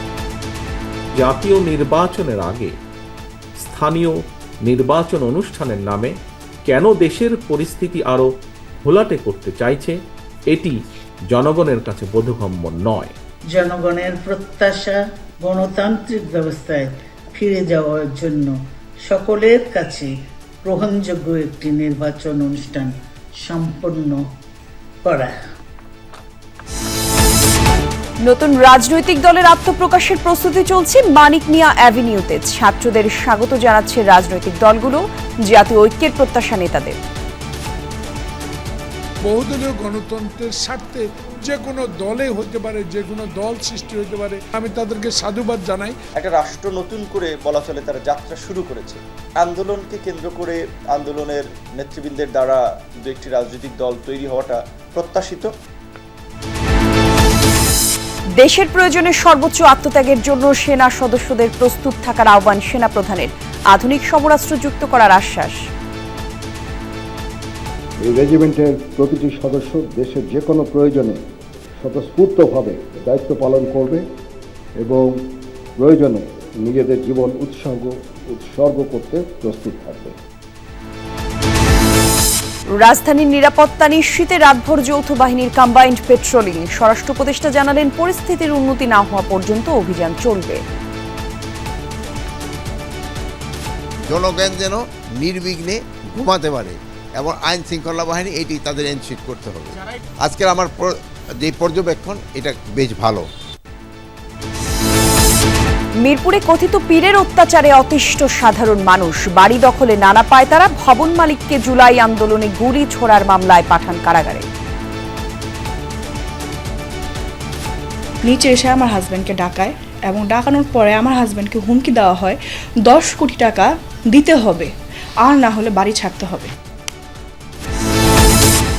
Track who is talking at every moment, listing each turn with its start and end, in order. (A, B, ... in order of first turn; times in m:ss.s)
0:01.2-0:02.7 A
0:03.6-0:06.1 A
0:06.6-0:08.3 A
0:08.8-0:10.0 A
0:11.3-0:13.1 A
0:13.5-0:18.6 B
0:19.1-0:20.1 B
0:20.6-0:22.9 B
0:23.4-0:24.2 B
0:25.0-0:25.3 B
0:28.2-0:37.0 C
0:39.2-0:46.0 D
0:46.2-0:55.5 E
0:58.4-1:05.6 C
1:08.0-1:11.2 F
1:11.8-1:14.0 F
1:14.8-1:15.1 F
1:15.8-1:20.2 F
1:22.8-1:30.6 C
1:34.1-1:43.3 G
1:46.0-1:54.5 C
1:58.2-2:04.7 H
2:05.2-2:06.5 H